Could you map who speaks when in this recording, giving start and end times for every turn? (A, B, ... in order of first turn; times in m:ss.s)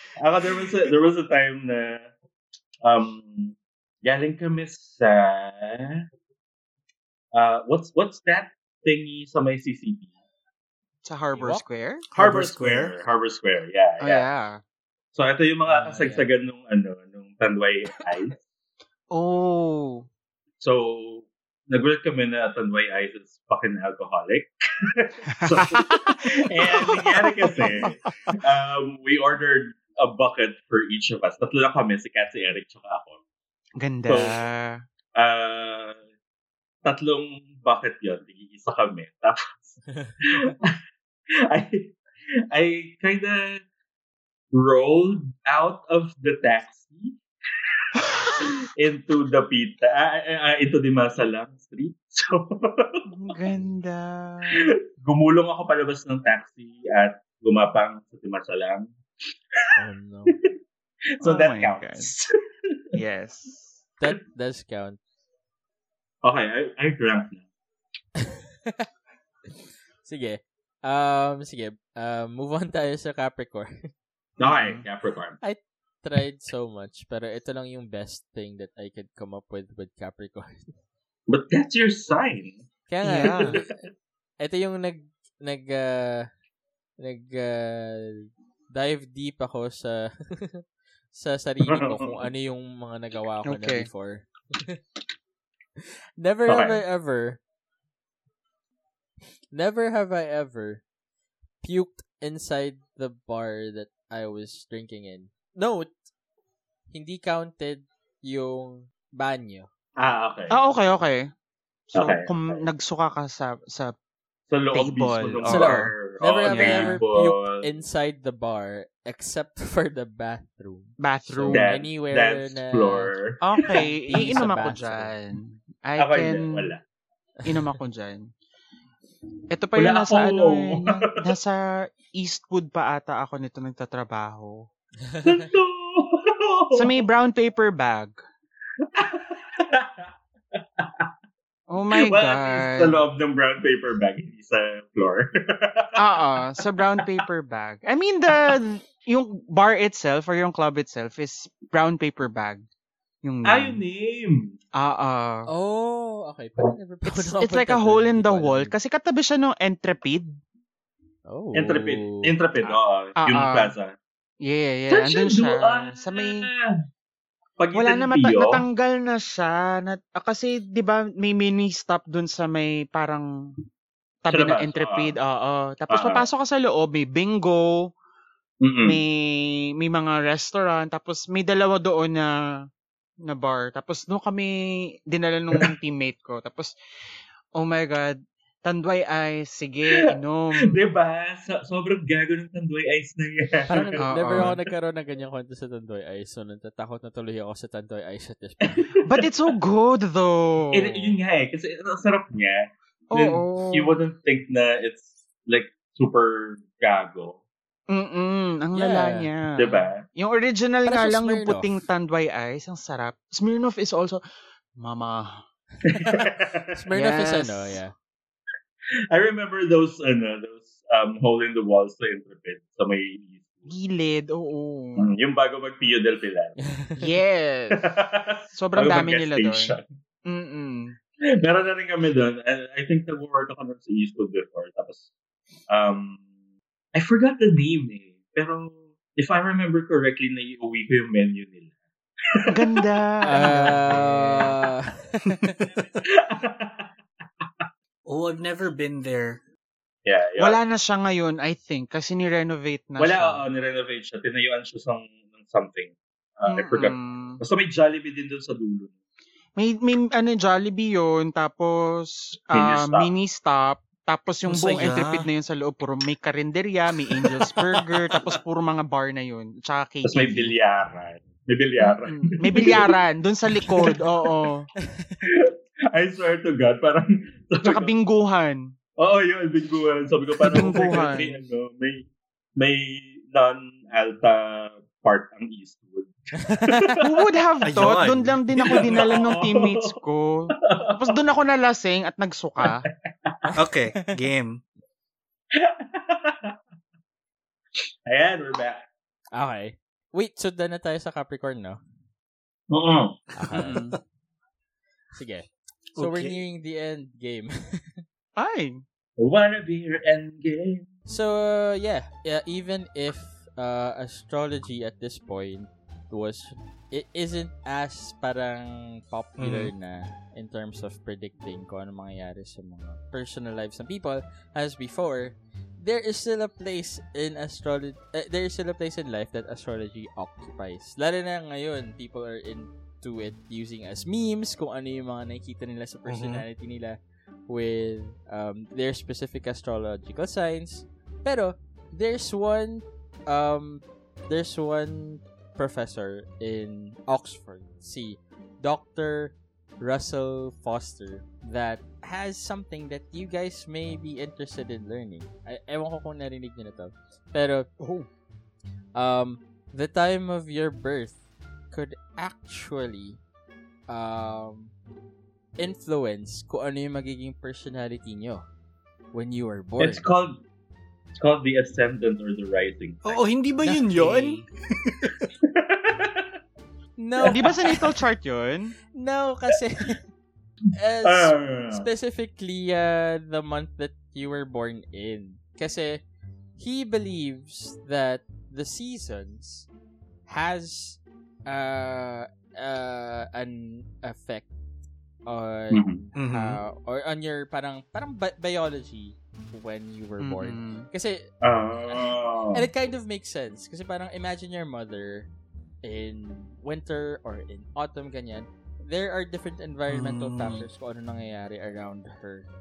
0:00.2-0:02.1 A
0:02.8-0:06.0 A
0:07.3-0:10.1 A
0:11.0-0:12.1 B
0:11.3-0:11.6 C
0:12.1-0:13.0 D
0:12.2-0:14.3 A
0:14.0-0:14.6 B
0:15.2-0:18.4 A
0:15.7-0:16.3 C
0:19.1-0:20.1 B
0:20.6-0:33.2 A
0:25.4-0:28.0 B
0:33.8-0:34.8 B
0:34.1-0:34.4 A
0:35.2-0:36.0 A
0:36.8-0:40.8 A
0:41.4-0:42.0 A
0:42.5-0:43.6 A
0:44.5-0:47.2 A
0:48.6-0:53.0 A
0:53.1-0:54.8 B
0:54.5-0:58.9 A
0:59.8-1:00.4 C
1:00.3-1:00.5 A
1:01.2-1:02.8 A
1:01.2-1:02.1 B
1:02.9-1:03.8 B
1:04.0-1:05.0 C
1:06.2-1:07.4 A
1:08.2-1:08.9 C
1:10.0-1:13.9 C
1:14.4-1:15.4 A
1:14.4-1:14.8 B
1:15.4-1:20.7 C
1:21.3-1:22.6 A
1:22.9-1:23.8 C
1:23.0-1:23.6 B
1:24.4-1:26.3 C
1:27.0-1:34.8 C
1:31.6-1:32.3 A
1:33.4-1:33.9 B
1:36.2-1:37.4 C
1:36.5-1:36.8 A
1:39.5-1:40.8 C
1:41.6-1:45.9 C
1:46.9-1:49.7 C
1:50.0-1:50.6 A
1:50.5-1:51.3 B
1:51.9-1:53.9 B
1:51.9-1:52.6 A
1:54.5-1:57.6 A
1:54.7-1:55.9 B
1:55.4-2:03.1 C
1:56.5-1:57.0 B
2:01.0-2:01.7 B
2:01.5-2:03.9 A
2:03.4-2:06.7 B
2:04.1-2:05.1 C
2:06.0-2:06.8 A
2:07.5-2:08.3 B
2:09.5-2:14.7 B
2:09.8-2:11.1 A
2:15.1-2:15.4 C
2:15.2-2:17.0 A
2:16.7-2:18.2 B
2:19.0-2:20.1 A
2:20.8-2:21.1 A
2:21.7-2:23.0 B
2:21.9-2:27.1 A
2:26.0-2:32.6 B
2:33.2-2:33.8 B
2:33.4-2:34.6 A
2:34.8-2:35.5 B
2:35.5-2:38.7 C
2:37.1-2:40.3 B
2:41.3-2:42.4 C
2:41.5-2:43.9 A
2:43.2-2:43.7 B
2:44.4-2:46.5 B
2:44.9-2:46.8 A
2:47.6-2:48.6 A
2:47.7-2:53.5 B
2:54.2-2:57.9 B
2:54.3-2:55.2 A
2:55.9-2:56.3 A
2:58.6-2:59.0 A
2:58.8-3:02.3 B
3:03.2-3:06.7 B
3:07.6-3:10.8 B
3:09.9-3:14.6 A
3:13.7-3:19.0 C
3:14.0-3:14.6 B
3:18.6-3:19.3 A
3:19.1-3:21.2 B
3:20.7-3:27.4 A
3:23.1-3:24.0 B
3:27.9-3:34.2 B
3:28.8-3:29.3 C
3:29.6-3:30.0 A
3:30.9-3:31.7 C
3:34.8-3:35.4 B
3:35.8-3:36.8 A
3:36.7-3:38.0 C
3:36.9-3:37.8 B
3:39.1-3:43.7 A
3:43.7-3:45.1 B
3:45.0-3:46.6 A
3:46.6-3:47.1 C
3:47.0-3:47.9 B
3:47.7-3:49.8 A
3:48.5-3:49.7 B
3:50.2-3:51.0 B
3:51.2-3:55.1 A
3:55.7-3:56.2 A
3:56.9-4:01.7 A
4:02.3-4:03.8 A
4:02.4-4:04.6 B
4:03.2-4:05.6 C
4:06.0-4:06.9 A
4:08.1-4:09.4 D
4:10.0-4:10.6 A
4:10.4-4:13.4 B
4:13.0-4:18.9 A
4:16.4-4:17.4 B
4:19.6-4:30.5 B
4:22.5-4:23.1 A
4:24.5-4:25.3 D
4:30.0-4:33.0 A
4:31.8-4:34.7 B
4:34.8-4:35.3 C
4:35.2-4:37.9 A
4:37.6-4:38.8 B
4:39.0-4:47.4 A
4:40.4-4:41.4 B
4:46.4-4:47.0 C
4:47.0-4:52.9 B
4:47.6-4:48.4 D
4:48.6-4:50.0 A
4:50.6-4:51.2 A
4:52.6-4:53.4 A
4:53.6-4:54.6 D
4:55.5-4:56.6 A
4:58.1-4:58.8 A
4:59.3-5:01.8 C
5:02.7-5:03.6 A
5:03.4-5:03.9 C
5:03.5-5:04.0 B
5:05.1-5:08.0 C
5:05.9-5:06.4 D
5:08.4-5:08.8 B
5:09.2-5:10.9 A
5:11.1-5:37.0 C
5:19.4-5:19.7 D
5:36.1-5:36.4 D
5:37.5-5:57.7 C
5:57.8-5:58.1 B
5:59.0-6:01.2 C
6:01.7-6:03.2 C
6:03.9-6:04.7 C
6:05.6-6:08.4 C
6:09.1-6:10.1 C
6:09.8-6:10.4 A
6:11.2-6:13.1 A
6:13.0-6:15.3 D
6:13.6-6:14.0 C
6:13.9-6:14.4 B
6:15.4-6:16.3 A
6:17.0-6:17.9 C
6:17.2-6:18.8 B
6:18.9-6:20.0 C
6:20.7-6:26.0 C
6:21.0-6:21.9 A
6:26.6-6:29.7 C
6:30.3-6:34.5 C
6:35.3-6:41.3 C
6:35.7-6:36.0 A
6:36.2-6:36.6 D
6:40.2-6:40.9 B
6:41.4-6:42.7 A
6:41.9-6:45.3 C
6:45.8-6:52.5 C
6:49.9-6:50.6 D